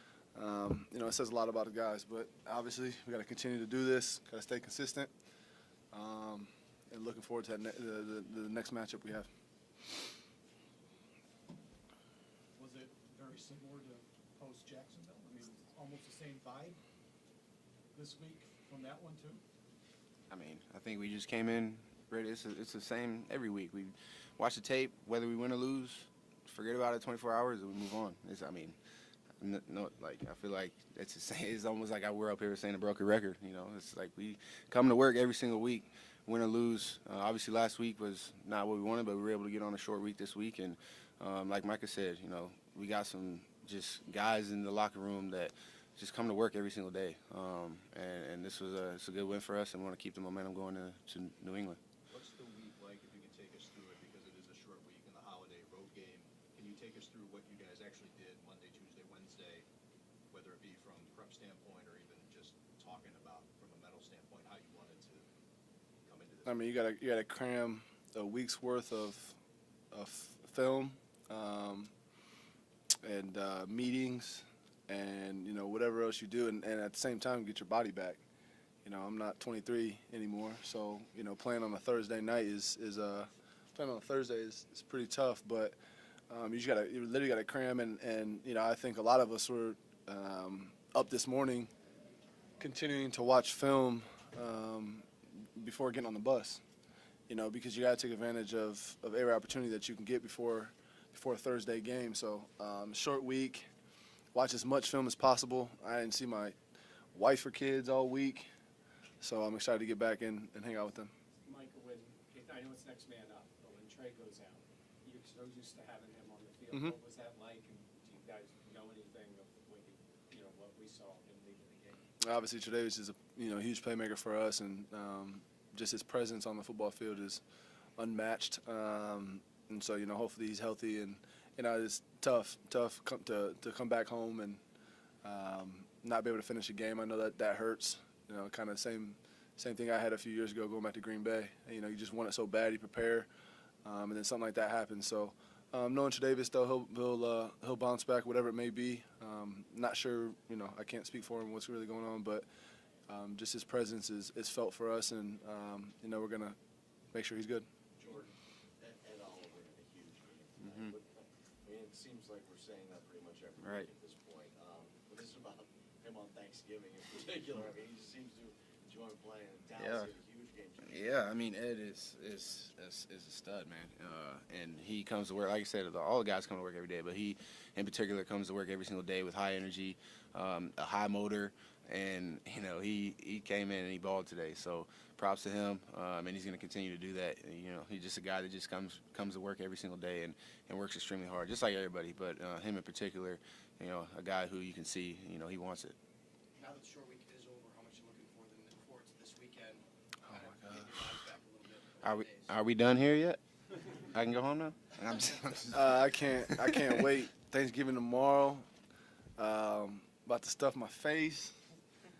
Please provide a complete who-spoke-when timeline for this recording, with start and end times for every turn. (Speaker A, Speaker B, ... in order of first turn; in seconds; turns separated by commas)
Speaker A: 0.3-5.1, Speaker A: 5.9-9.3, Speaker B: 12.6-16.8, Speaker B: 17.9-19.4, Speaker C: 20.3-28.8, Speaker C: 29.4-51.8, Speaker D: 52.1-59.6, Speaker D: 60.3-65.2, Speaker D: 66.0-66.7, Speaker A: 66.4-69.4, Speaker A: 69.9-71.9, Speaker A: 73.0-78.2, Speaker A: 78.8-85.8, Speaker A: 86.3-91.7, Speaker A: 92.6-96.6, Speaker A: 97.3-103.7, Speaker A: 104.3-106.6, Speaker A: 107.1-108.5, Speaker A: 109.2-111.1, Speaker E: 111.4-122.0, Speaker A: 116.7-117.0, Speaker A: 122.2-127.4, Speaker A: 128.0-134.6, Speaker A: 135.2-143.3, Speaker A: 143.8-152.4, Speaker A: 153.1-156.6, Speaker A: 157.1-157.7, Speaker F: 158.0-171.3, Speaker C: 160.6-160.9, Speaker C: 163.6-163.9, Speaker C: 169.7-170.1, Speaker C: 170.8-195.9, Speaker G: 196.6-202.6, Speaker C: 202.0-203.4, Speaker C: 204.1-206.5, Speaker A: 205.7-208.7, Speaker A: 209.4-211.5